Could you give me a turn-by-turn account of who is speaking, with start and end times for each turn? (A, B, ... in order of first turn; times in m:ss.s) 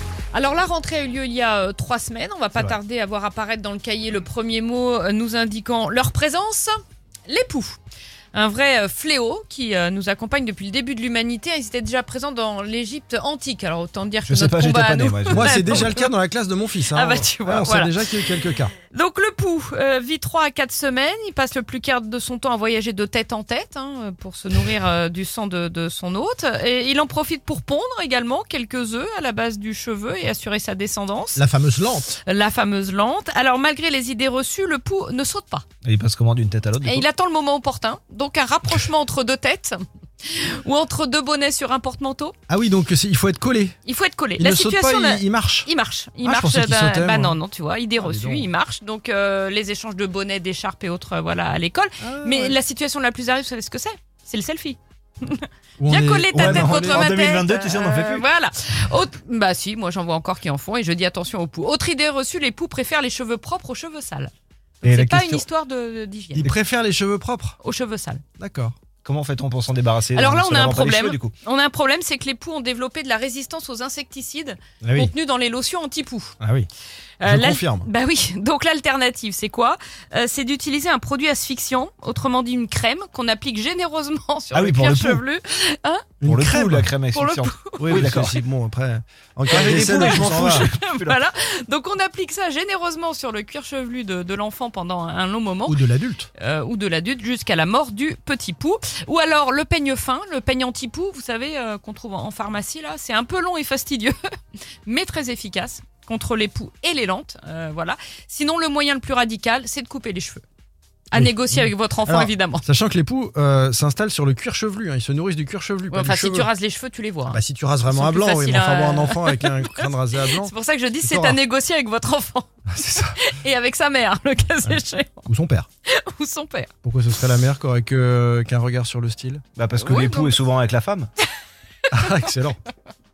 0:00.3-0:06.7 A
0:07.3-0:07.8 A
0:08.3-0:16.1 A
0:14.2-0:15.9 B
0:15.3-0:18.7 C
0:16.9-0:18.2 A
0:18.9-0:31.4 A
0:31.3-0:32.2 C
0:32.2-0:35.6 A
0:35.8-0:37.0 B
0:36.8-0:42.4 A
0:42.5-0:43.7 C
0:43.8-1:06.5 A
0:44.4-0:45.7 C
0:46.2-0:47.4 C
0:48.0-0:48.4 C
0:52.0-0:52.6 C
0:55.8-0:57.1 C
0:56.3-0:58.2 B
1:04.8-1:05.4 B
1:06.3-1:07.6 C
1:07.6-1:08.2 A
1:08.4-1:08.7 C
1:09.0-1:11.3 B
1:10.1-1:16.3 A
1:14.8-1:15.1 B
1:16.4-1:16.7 C
1:17.2-1:28.2 A
1:17.2-1:17.9 C
1:24.5-1:25.2 B
1:26.2-1:26.9 C
1:26.2-1:28.4 B
1:27.7-1:30.7 C
1:29.5-1:31.2 B
1:29.5-1:35.8 A
1:35.6-1:36.3 C
1:36.4-1:44.2 A
1:44.8-1:50.4 A
1:51.1-1:52.6 A
1:51.1-1:56.5 C
1:55.9-2:05.3 A
1:57.3-2:01.4 C
2:02.7-2:03.2 C
2:04.6-2:05.6 C
2:05.8-2:06.7 A
2:06.8-2:09.4 C
2:09.6-2:11.1 B
2:09.8-2:10.4 A
2:11.9-2:12.6 C